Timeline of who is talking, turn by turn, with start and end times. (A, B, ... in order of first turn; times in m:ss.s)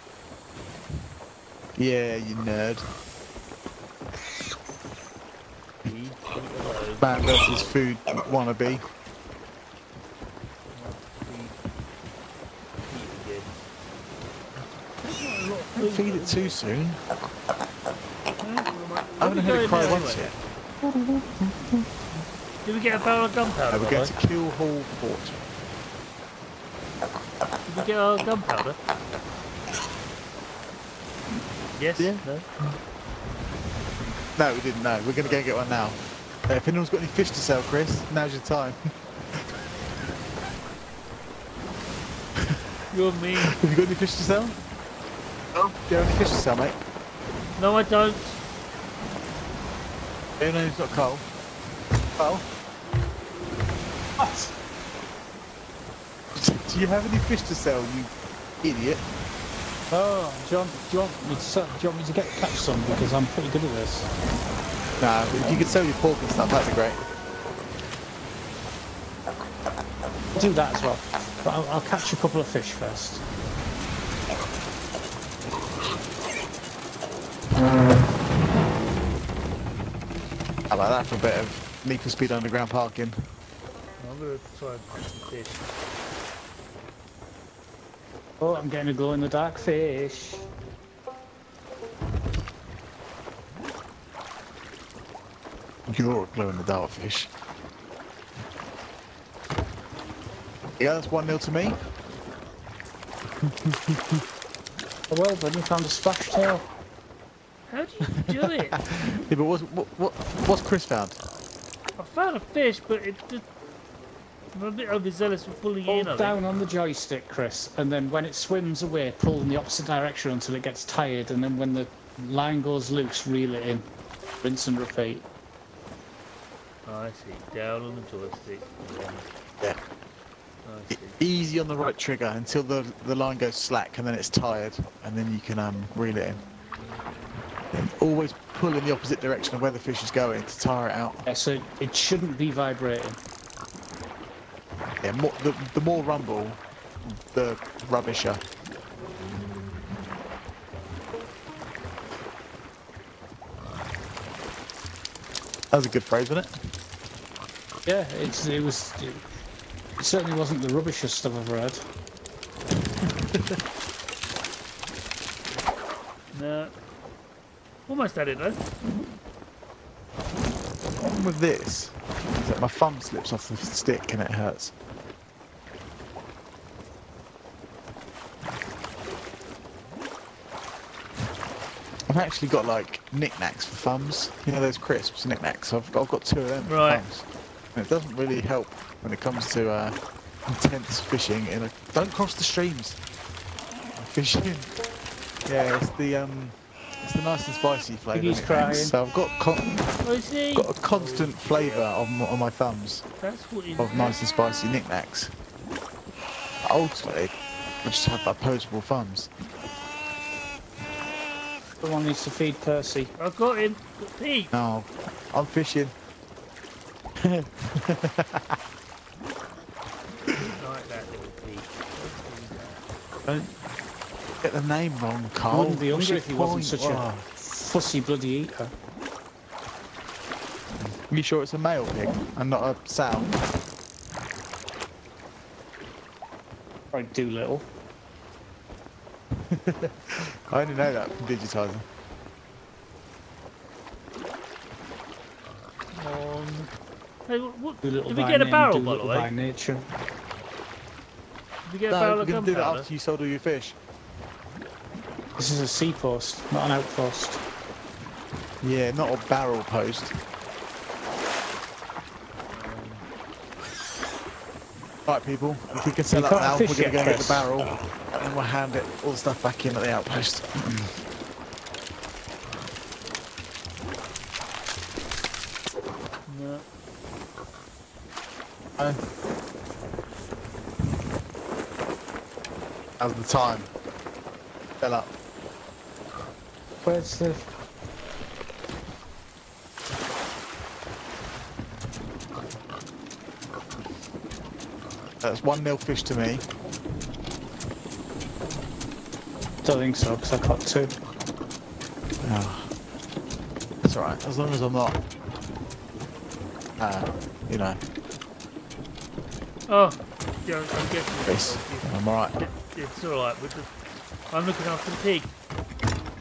0:01.8-0:02.9 A
0:05.8-0:07.8 B
0:07.0-0:08.8 A
0:10.7-0:11.6 B
0:12.9-0:13.6 B
0:15.0-0:16.6 B
0:15.8-0:17.0 A
0:18.4-0:20.3 B
0:19.2-0:20.3 A
0:20.8-0:21.8 C
0:22.6-0:24.1 B
0:23.7-0:25.4 A
0:27.6-0:28.8 B
0:31.8-0:32.4 B
0:32.0-0:32.8 A
0:34.4-0:38.8 A
0:35.2-0:35.5 B
0:42.4-0:42.7 A
0:42.9-0:43.6 B
0:43.4-0:44.6 A
0:45.5-0:46.8 A
0:47.6-0:48.4 B
0:50.4-0:51.2 A
0:52.2-0:52.4 A
0:54.2-0:54.5 C
0:56.3-0:59.0 A
0:59.9-1:04.1 C
1:05.0-1:07.0 A
1:10.3-1:13.2 C
1:20.7-1:23.2 A
1:24.0-1:25.7 B
1:28.4-1:30.4 C
1:35.9-1:37.3 A
1:40.8-1:41.8 A
1:43.4-1:44.2 A
1:45.1-1:46.7 C
1:47.7-1:48.8 B
1:48.2-1:51.2 A
1:52.0-1:53.4 B
1:54.5-1:56.4 B
1:55.9-2:03.9 C
2:04.4-2:05.2 C
2:06.8-2:09.2 B
2:10.6-2:11.2 B
2:10.9-2:16.4 A
2:17.7-2:21.2 A
2:21.2-2:23.2 C
2:25.0-2:26.6 A
2:27.3-2:28.4 A
2:35.7-2:36.5 A
2:37.8-2:39.2 C
2:40.0-2:41.8 C
2:43.0-2:43.6 A
2:46.3-2:46.7 B
2:47.9-2:48.6 B
2:51.0-2:54.7 A
3:02.1-3:09.9 A
3:06.6-3:07.0 B
3:10.5-3:13.0 A
3:14.0-3:14.7 A
3:15.4-3:19.9 A
3:18.1-3:19.0 C
3:20.0-3:21.9 B
3:20.5-3:23.0 A
3:23.2-3:24.2 B
3:23.8-3:25.3 A
3:26.6-3:29.3 A
3:31.8-3:33.1 C
3:33.2-3:34.5 B
3:34.5-3:35.9 A
3:37.2-3:38.6 A
3:40.3-3:42.8 B
3:43.2-3:43.5 A
3:44.4-3:47.3 A
3:45.5-3:48.7 C
3:50.8-3:53.4 A
3:56.9-3:57.6 C
3:59.3-4:01.8 A
4:05.9-4:06.7 B
4:07.3-4:09.3 B
4:07.8-4:09.9 C
4:11.7-4:12.9 B
4:11.9-4:13.8 A
4:15.4-4:17.4 C
4:18.6-4:20.2 A
4:22.5-4:23.1 B
4:25.0-4:31.0 A
4:26.1-4:27.5 C
4:36.3-4:36.6 B
4:43.0-4:43.7 A
4:44.8-4:45.1 A
4:46.8-4:47.4 C
4:55.2-4:56.4 A
4:59.6-5:01.0 C
5:02.2-5:02.7 A
5:03.8-5:05.0 A
5:06.8-5:07.8 A
5:09.7-5:13.7 B
5:11.2-5:12.4 A
5:14.3-5:15.3 B